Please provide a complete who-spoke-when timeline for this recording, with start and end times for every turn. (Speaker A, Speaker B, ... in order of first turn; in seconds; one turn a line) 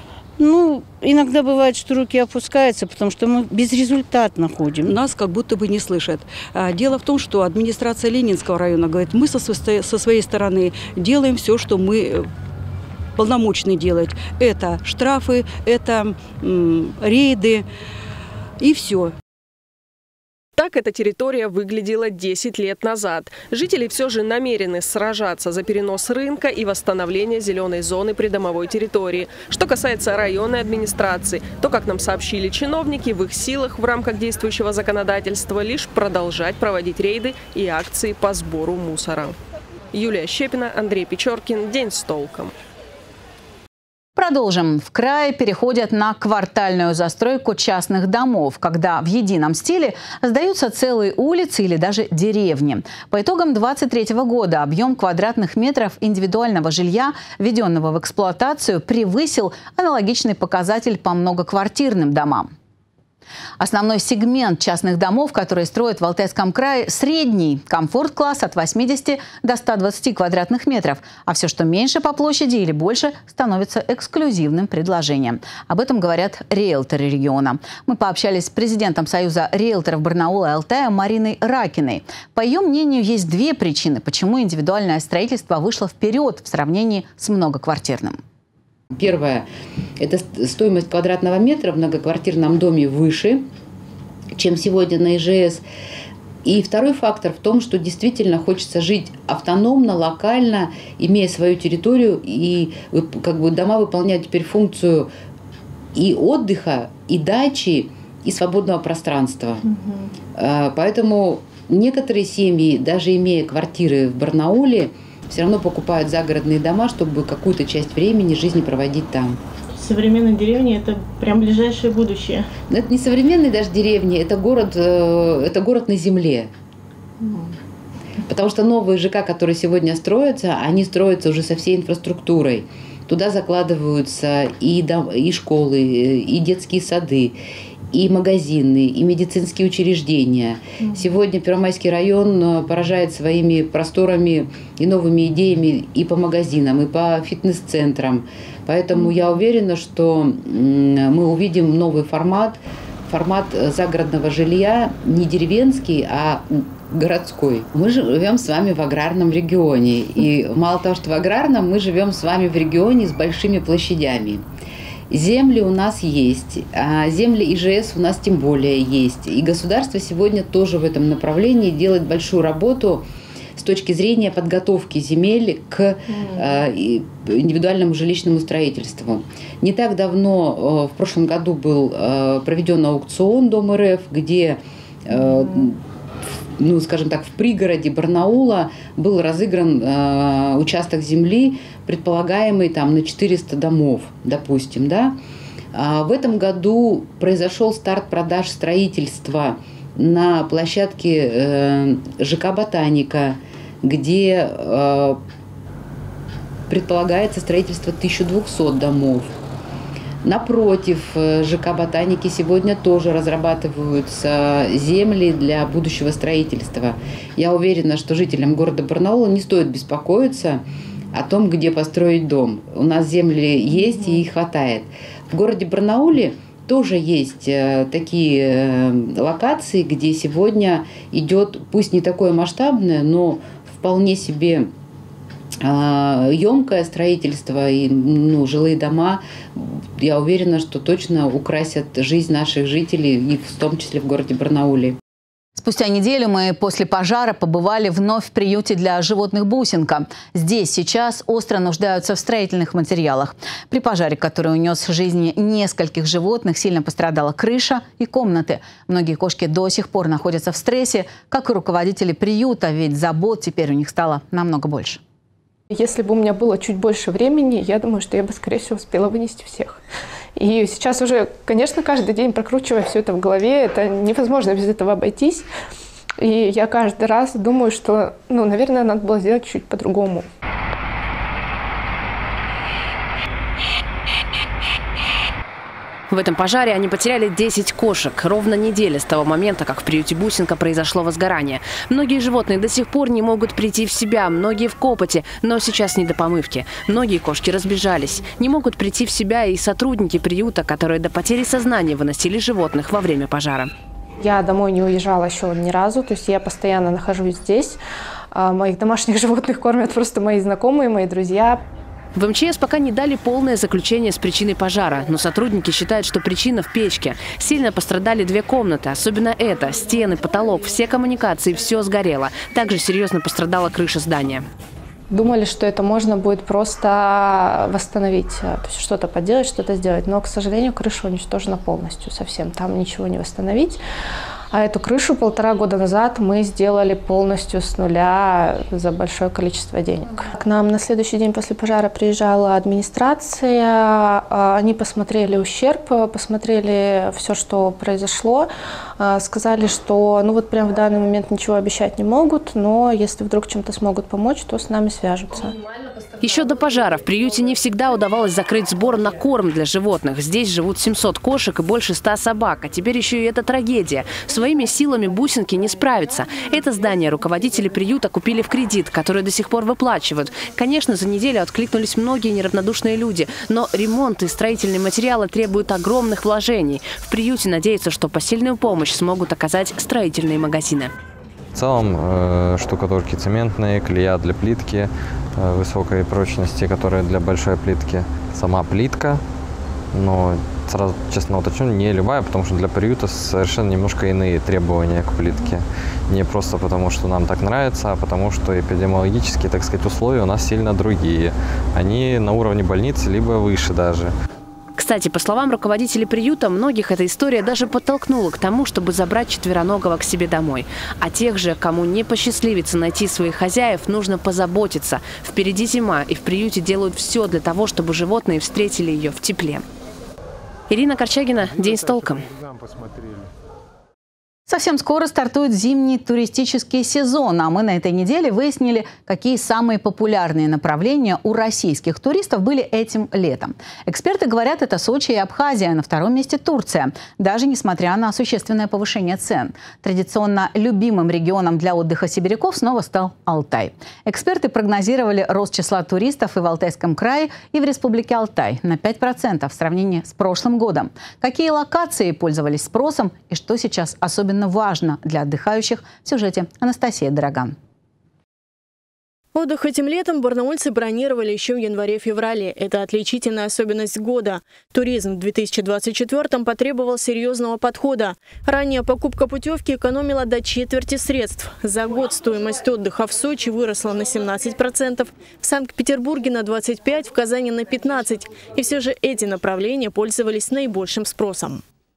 Speaker A: 0.4-4.9
Speaker B: 4.8-12.3
Speaker B: 13.2-17.6
Speaker B: 18.6-19.1
Speaker C: 20.6-39.4
Speaker C: 39.9-42.5
Speaker D: 44.1-62.5
Speaker D: 63.6-88.2
Speaker E: 89.0-89.5
Speaker E: 90.0-93.5
Speaker E: 94.3-95.6
Speaker E: 96.4-105.1
Speaker E: 105.9-109.6
Speaker E: 110.3-119.4
Speaker F: 119.8-122.5
Speaker E: 122.7-126.5
Speaker E: 128.3-137.4
Speaker E: 137.9-164.4
Speaker E: 165.1-185.8
Speaker E: 186.6-195.2
Speaker E: 195.7-205.2
Speaker E: 206.7-209.3
Speaker E: 210.2-234.7
Speaker E: 235.6-245.0
Speaker D: 245.6-265.0
Speaker G: 265.7-269.8
Speaker G: 270.4-275.5
Speaker G: 276.2-280.3
Speaker H: 286.1-303.7
Speaker G: 304.2-307.8
Speaker G: 308.3-311.6
Speaker H: 312.1-324.4
Speaker G: 325.1-333.8
Speaker G: 334.5-355.5
Speaker H: 356.2-380.9
Speaker I: 381.5-389.2
Speaker I: 389.9-404.1
Speaker H: 404.8-419.6
Speaker H: 420.7-422.3
Speaker D: 424.5-457.6
Speaker F: 459.3-481.6